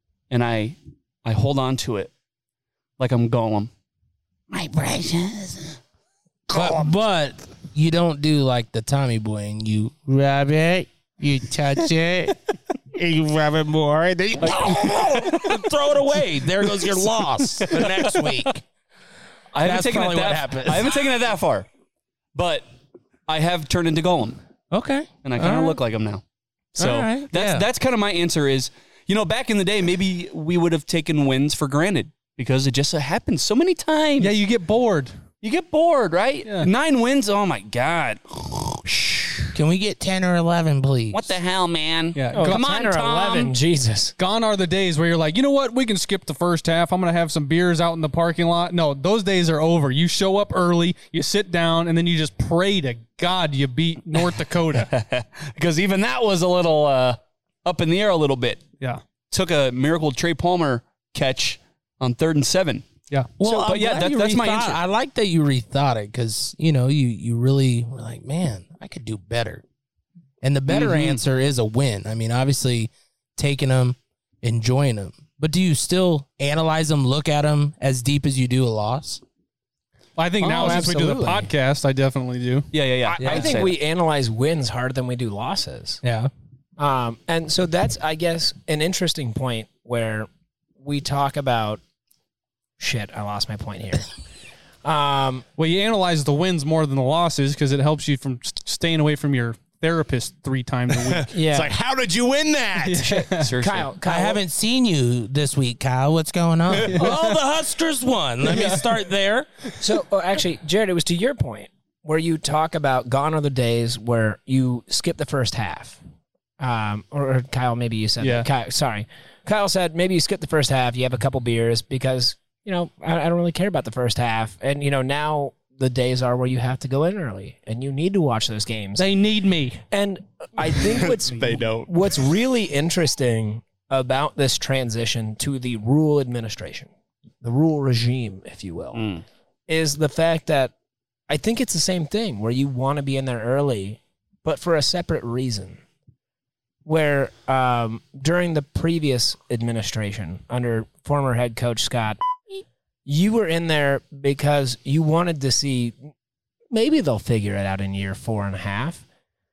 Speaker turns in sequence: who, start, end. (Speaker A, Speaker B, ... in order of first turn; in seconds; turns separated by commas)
Speaker A: 0.3-2.1, Speaker A: 3.0-3.7, Speaker A: 4.5-5.5, Speaker B: 6.5-12.4, Speaker B: 12.9-18.6, Speaker A: 14.4-15.6, Speaker A: 17.7-18.5, Speaker A: 19.5-21.7, Speaker B: 19.6-20.9, Speaker A: 22.3-22.6, Speaker A: 23.3-24.4, Speaker B: 24.7-25.8, Speaker A: 25.2-26.2, Speaker A: 26.8-34.3, Speaker B: 26.8-27.6, Speaker C: 34.2-35.1, Speaker A: 35.4-39.4, Speaker C: 36.4-36.7, Speaker B: 39.5-41.3, Speaker A: 41.1-43.5, Speaker C: 42.1-42.6, Speaker D: 42.3-44.1, Speaker C: 44.2-54.9, Speaker A: 54.7-58.6, Speaker A: 59.3-62.9, Speaker B: 63.4-69.6, Speaker A: 63.4-64.8, Speaker B: 70.4-79.2, Speaker A: 70.7-71.2, Speaker C: 80.2-82.7, Speaker D: 80.5-81.5, Speaker A: 82.7-83.7, Speaker D: 83.1-86.0, Speaker B: 83.2-83.5, Speaker B: 86.0-86.3, Speaker D: 86.8-91.8, Speaker D: 92.8-94.1, Speaker D: 94.8-95.4, Speaker C: 95.6-101.3, Speaker E: 100.9-103.0, Speaker D: 101.3-101.7, Speaker C: 102.8-103.5, Speaker D: 103.0-104.4, Speaker A: 103.4-103.9, Speaker B: 104.0-109.5, Speaker C: 106.8-107.2, Speaker C: 108.5-108.8, Speaker D: 109.8-116.0, Speaker D: 116.6-129.1, Speaker C: 129.0-129.8, Speaker D: 129.9-136.9, Speaker E: 130.7-131.9, Speaker D: 137.4-139.1, Speaker A: 138.9-139.2, Speaker D: 139.7-140.7, Speaker D: 141.3-145.8, Speaker D: 146.8-152.2, Speaker D: 153.1-156.0, Speaker D: 156.7-159.0